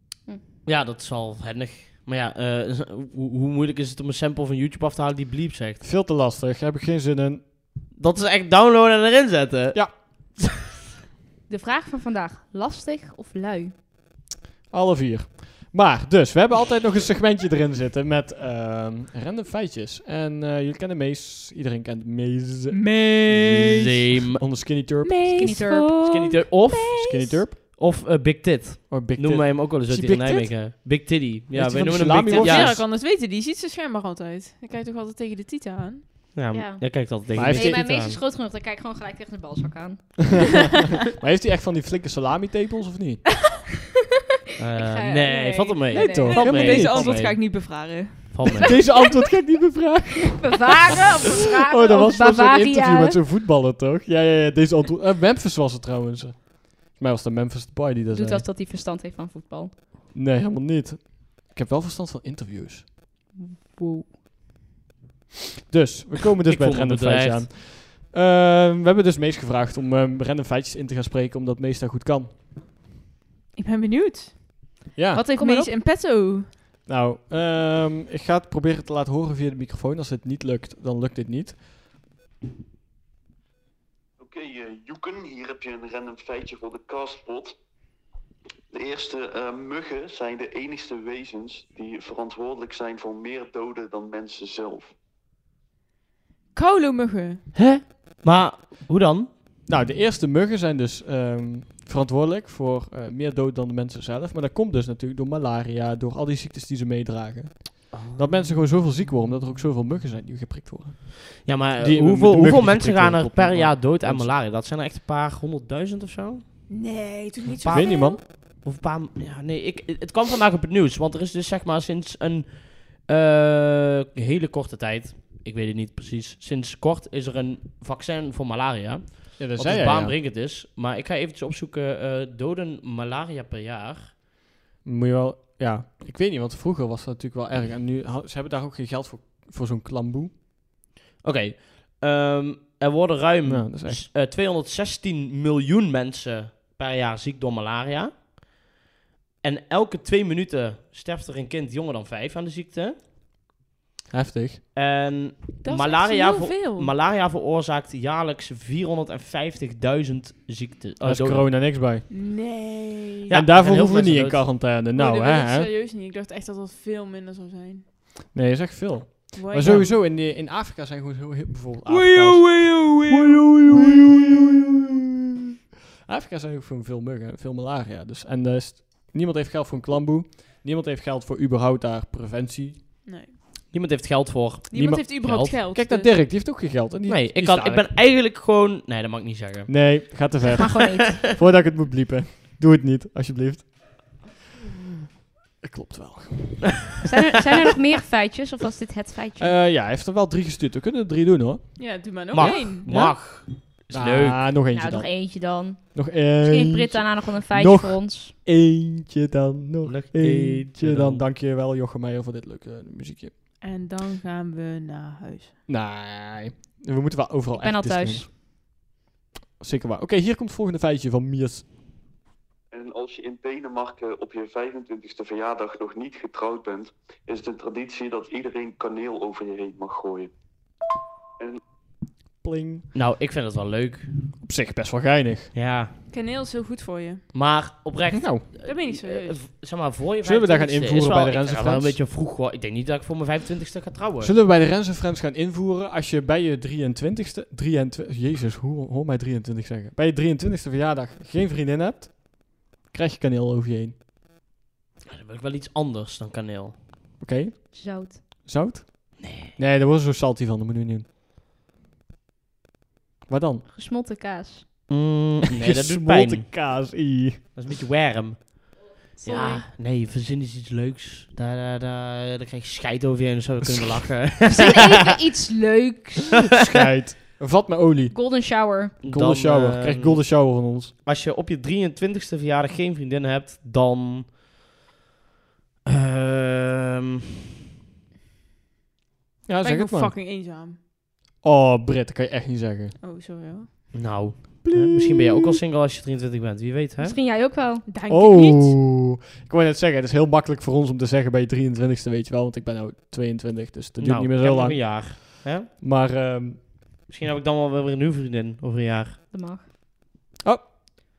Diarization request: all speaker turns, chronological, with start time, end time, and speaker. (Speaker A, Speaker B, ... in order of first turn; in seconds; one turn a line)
Speaker A: 0.7-5.8
Speaker B: 5.8-7.5
Speaker A: 8.0-10.5
Speaker C: 11.5-13.7
Speaker B: 14.7-25.6
Speaker D: 22.7-24.0
Speaker A: 23.7-24.4
Speaker D: 25.0-27.4
Speaker C: 25.4-26.0
Speaker A: 25.9-32.8
Speaker B: 27.0-27.6
Speaker B: 28.9-30.6
Speaker B: 31.5-32.8
Speaker D: 32.3-36.1
Speaker A: 36.4-38.2
Speaker C: 36.5-40.8
Speaker B: 37.3-37.9
Speaker B: 41.1-43.3
Speaker A: 44.6-47.6
Speaker C: 44.8-47.2
Speaker B: 45.9-47.0
Speaker D: 46.2-48.7
Speaker A: 48.3-48.8
Speaker B: 48.6-51.0
Speaker C: 48.7-49.0
Speaker C: 50.3-53.2
Speaker B: 51.6-58.5
Speaker C: 58.1-59.7
Speaker B: 60.1-62.9
Speaker C: 63.4-64.2
Speaker B: 65.7-72.3
Speaker A: 66.5-67.5
Speaker D: 73.5-76.5
Speaker B: 75.0-75.2
Speaker C: 75.3-75.7
Speaker B: 76.9-81.6
Speaker E: 84.2-87.6
Speaker E: 88.7-94.9
Speaker D: 96.5-97.4
Speaker A: 97.5-99.3
Speaker B: 99.7-114.3
Speaker A: 107.9-108.3
Speaker A: 111.4-116.4
Speaker D: 116.7-118.2
Speaker A: 117.6-134.1
Speaker B: 117.7-118.2
Speaker B: 129.4-130.2
Speaker B: 134.8-140.3
Speaker A: 141.2-148.2
Speaker B: 143.4-144.0
Speaker A: 149.4-153.0
Speaker B: 154.1-154.6
Speaker A: 154.8-161.5
Speaker D: 155.6-156.9
Speaker B: 161.0-162.1
Speaker D: 162.1-163.3
Speaker A: 163.3-164.5
Speaker B: 163.3-165.7
Speaker D: 164.9-167.8
Speaker B: 168.3-174.9
Speaker D: 169.3-170.0
Speaker A: 169.6-169.9
Speaker D: 171.9-174.2
Speaker B: 176.1-182.8
Speaker D: 183.1-183.3
Speaker A: 183.7-185.6
Speaker D: 184.7-186.2
Speaker B: 184.7-187.9
Speaker A: 187.1-191.2
Speaker B: 189.7-194.3
Speaker C: 190.5-191.2
Speaker B: 195.6-196.9
Speaker C: 197.0-199.6
Speaker B: 199.4-201.7
Speaker D: 201.8-202.9
Speaker A: 202.3-204.5
Speaker B: 202.9-205.4
Speaker C: 204.7-208.3
Speaker B: 205.9-213.3
Speaker A: 209.8-211.2
Speaker D: 213.6-215.6
Speaker B: 215.7-218.3
Speaker C: 217.6-218.3
Speaker B: 219.6-221.7
Speaker E: 222.7-230.3
Speaker B: 232.4-232.9
Speaker A: 232.9-234.1
Speaker B: 234.4-235.5
Speaker A: 235.5-235.9
Speaker D: 236.1-237.2
Speaker A: 237.3-244.3
Speaker B: 238.1-238.4
Speaker D: 238.6-239.5
Speaker B: 240.2-242.0
Speaker B: 244.2-253.9
Speaker A: 255.1-256.8
Speaker B: 257.2-261.1
Speaker C: 257.7-258.2
Speaker A: 259.2-259.6
Speaker B: 263.3-263.6
Speaker C: 263.7-264.7
Speaker A: 264.9-266.5
Speaker B: 265.6-267.5
Speaker A: 267.6-275.1
Speaker C: 269.2-269.6
Speaker B: 273.6-274.0
Speaker C: 274.5-276.5
Speaker B: 276.6-280.9
Speaker C: 278.1-279.0
Speaker A: 279.0-280.4
Speaker A: 281.1-284.5
Speaker A: 285.9-287.2
Speaker B: 289.5-290.1
Speaker D: 289.6-290.8
Speaker B: 291.4-293.0
Speaker D: 293.0-293.7
Speaker A: 293.9-297.2
Speaker B: 294.6-295.6
Speaker C: 297.0-297.9
Speaker D: 297.9-298.8
Speaker B: 298.1-306.7
Speaker A: 304.0-305.7
Speaker A: 307.1-309.2
Speaker C: 309.3-309.6